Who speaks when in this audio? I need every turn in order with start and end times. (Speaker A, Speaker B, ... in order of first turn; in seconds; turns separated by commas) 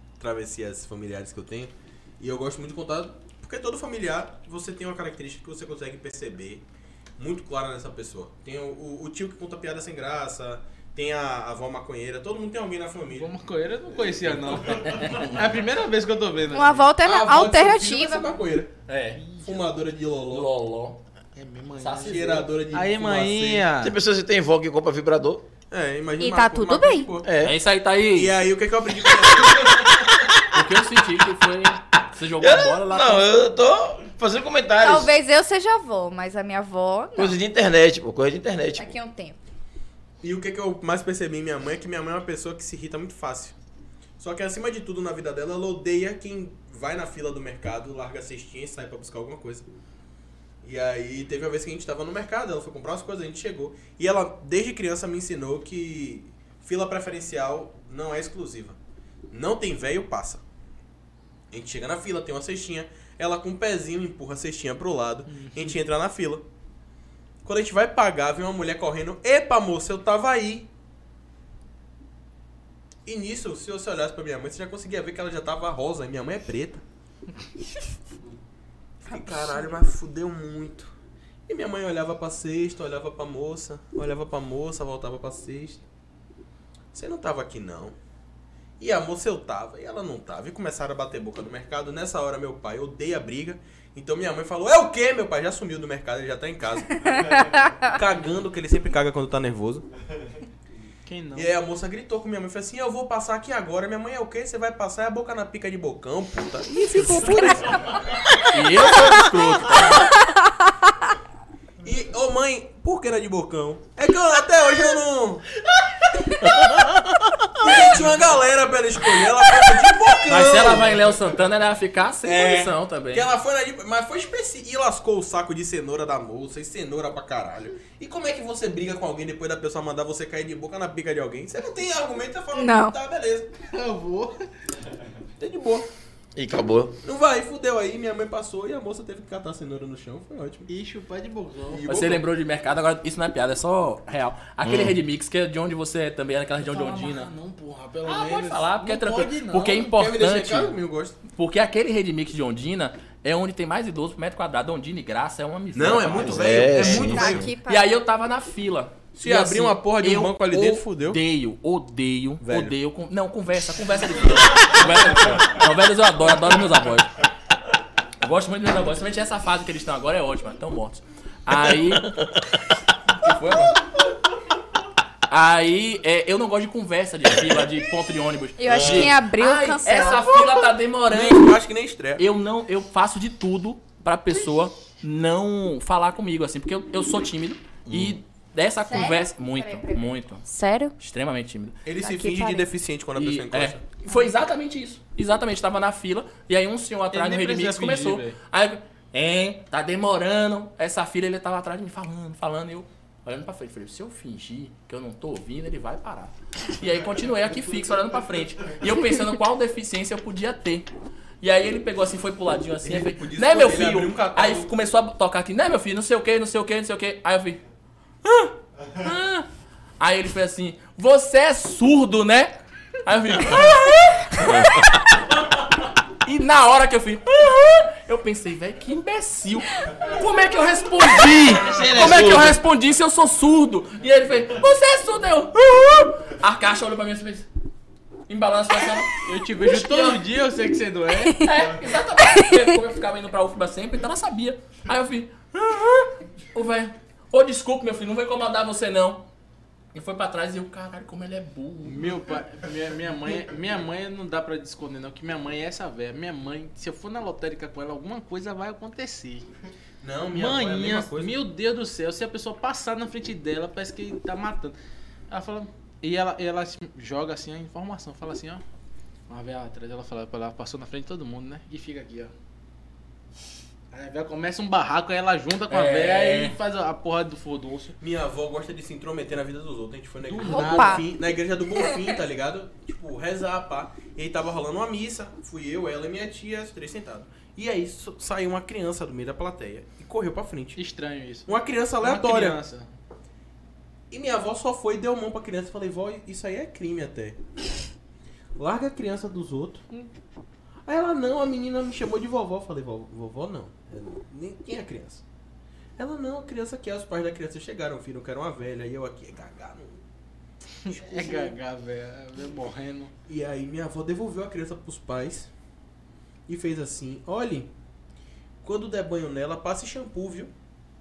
Speaker A: 0.2-6.6, Speaker A: 7.2-13.3, Speaker B: 13.1-16.9, Speaker A: 14.2-14.7, Speaker C: 14.8-15.3, Speaker D: 16.5-18.3, Speaker A: 17.0-18.7, Speaker C: 18.9-19.2, Speaker B: 19.2-19.4, Speaker A: 19.4-20.5, Speaker C: 20.3-21.0, Speaker B: 21.3-23.9, Speaker C: 21.8-22.3, Speaker A: 22.0-23.7, Speaker E: 23.8-25.4, Speaker A: 25.7-27.3, Speaker D: 26.2-27.1, Speaker E: 27.2-27.6, Speaker C: 27.4-28.4, Speaker A: 28.1-30.1, Speaker C: 30.5-33.3, Speaker E: 32.4-35.1, Speaker D: 34.8-37.4, Speaker E: 37.2-38.9, Speaker D: 38.8-39.4, Speaker A: 40.2-43.5, Speaker A: 44.2-49.7, Speaker A: 50.6-58.8, Speaker A: 59.3-60.4, Speaker A: 61.5-66.5, Speaker B: 65.3-65.8, Speaker A: 67.4-70.7, Speaker A: 73.0-76.8, Speaker A: 79.0-80.9, Speaker D: 79.3-79.7, Speaker A: 81.5-85.8, Speaker A: 86.9-88.0, Speaker A: 88.8-99.9, Speaker B: 101.0-101.5, Speaker A: 101.3-108.0, Speaker C: 108.5-110.1, Speaker A: 111.8-115.5, Speaker A: 117.6-121.0, Speaker C: 120.2-123.3, Speaker A: 122.2-133.5, Speaker D: 132.5-132.9, Speaker B: 133.7-134.3, Speaker A: 135.4-135.9, Speaker E: 136.3-136.9, Speaker A: 137.0-140.7, Speaker B: 140.7-141.8, Speaker A: 141.7-142.2, Speaker C: 141.9-147.3, Speaker E: 144.6-144.9, Speaker B: 146.6-149.8, Speaker C: 148.1-150.7, Speaker A: 149.7-151.2, Speaker C: 151.3-156.8, Speaker A: 155.7-157.5, Speaker E: 156.1-157.5, Speaker D: 156.8-157.9, Speaker C: 157.7-167.2, Speaker A: 159.2-161.2, Speaker A: 162.4-162.7, Speaker C: 168.2-172.2, Speaker E: 171.5-172.4, Speaker C: 173.2-173.8, Speaker A: 173.2-173.8, Speaker C: 175.3-181.6, Speaker D: 178.6-180.3, Speaker E: 178.7-179.1, Speaker A: 181.1-182.2, Speaker C: 182.2-190.4, Speaker E: 187.9-188.2, Speaker D: 188.9-190.9, Speaker C: 191.0-191.8, Speaker A: 191.8-193.8, Speaker D: 192.0-192.7, Speaker C: 193.1-210.9, Speaker D: 194.1-194.3, Speaker B: 197.1-198.4, Speaker C: 211.4-217.6, Speaker A: 212.8-214.7, Speaker C: 218.2-219.5, Speaker C: 220.0-225.2, Speaker C: 226.2-237.5, Speaker E: 231.7-232.6, Speaker C: 238.3-240.2, Speaker B: 239.2-241.4, Speaker C: 241.3-249.2, Speaker D: 242.4-242.6, Speaker C: 249.9-252.1, Speaker B: 251.8-259.5, Speaker A: 260.0-261.4, Speaker B: 260.3-264.8, Speaker B: 265.3-268.6, Speaker B: 269.3-272.3, Speaker B: 273.9-277.9, Speaker C: 275.7-276.6, Speaker A: 278.0-290.8, Speaker B: 280.2-281.0, Speaker D: 280.4-281.0, Speaker B: 290.8-292.9, Speaker A: 291.5-292.6, Speaker A: 294.1-297.4, Speaker A: 298.6-299.8, Speaker A: 300.9-305.2, Speaker A: 306.0-310.0, Speaker B: 310.8-313.1, Speaker A: 310.9-311.5, Speaker A: 313.3-315.5, Speaker A: 316.5-317.7, Speaker A: 318.6-320.5